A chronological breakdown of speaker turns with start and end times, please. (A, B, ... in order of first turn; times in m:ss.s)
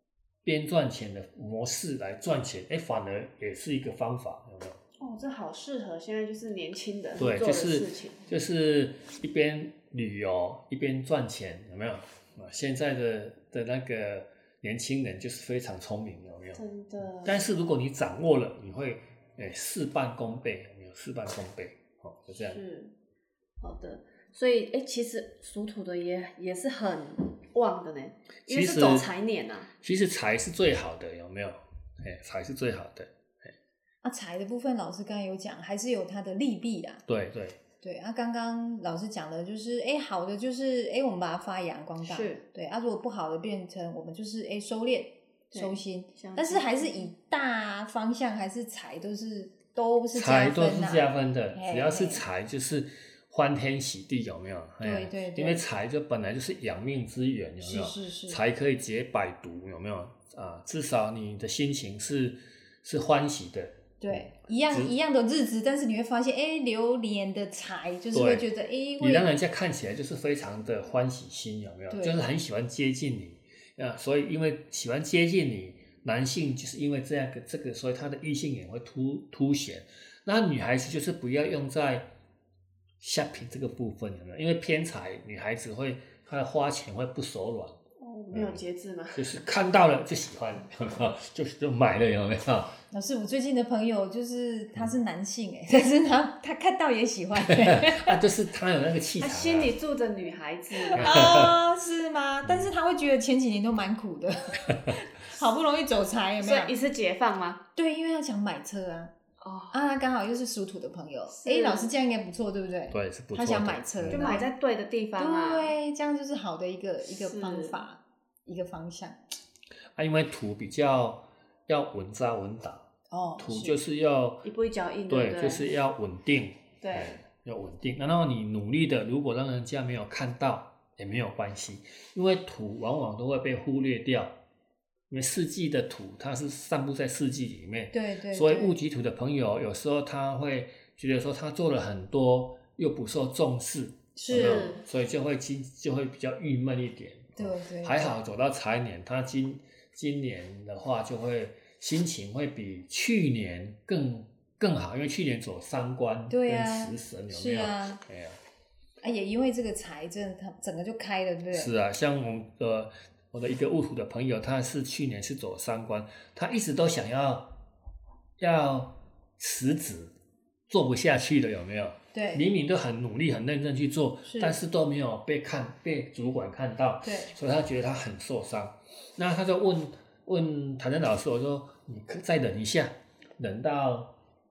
0:00.4-0:04.8 A
0:05.0-0:08.2 B
0:07.2-0:16.6 A
0:16.5-0:17.4 B
0:17.2-0:22.6 A
0:22.3-0:22.9 B
0:23.6-0:29.7 B
0:28.5-0:29.1 A
0:29.8-0:33.1 A
0:34.0-0:37.0 C
0:37.1-0:37.6 A
0:37.8-0:52.2 C
0:42.0-0:42.4 B
0:45.5-0:47.1 B
0:50.1-1:04.9 A
0:54.8-0:55.6 C
0:57.6-0:58.4 C
1:04.0-1:09.3 C
1:08.1-1:22.1 A
1:11.9-1:12.2 C
1:23.0-1:27.8 A
1:28.0-1:29.3 B
1:28.3-1:28.6 A
1:29.1-1:32.7 A
1:32.9-1:38.2 C
1:37.4-1:39.7 A
1:39.2-1:41.1 B
1:40.8-1:46.7 C
1:40.9-1:41.5 A
1:42.4-1:42.7 A
1:46.4-1:47.6 B
1:47.7-1:49.1 C
1:49.4-1:49.8 B
1:49.7-1:54.5 C
1:51.3-1:51.9 B
1:52.9-1:54.3 A
1:54.1-1:55.7 B
1:55.2-1:59.2 C
1:57.0-1:57.8 B
2:00.0-2:02.9 A
2:03.1-2:03.7 C
2:03.4-2:04.4 A
2:04.4-2:05.7 B
2:05.1-2:14.4 A
2:06.8-2:07.2 B
2:15.1-2:38.4 A
2:17.9-2:18.8 C
2:24.1-2:24.7 C
2:24.3-2:24.8 B
2:27.4-2:28.2 C
2:36.3-2:38.0 C
2:39.0-2:41.7 C
2:41.5-2:47.5 A
2:48.4-2:50.1 A
2:50.7-3:04.1 A
2:52.1-2:52.4 C
2:54.2-2:54.6 C
2:57.0-2:57.3 C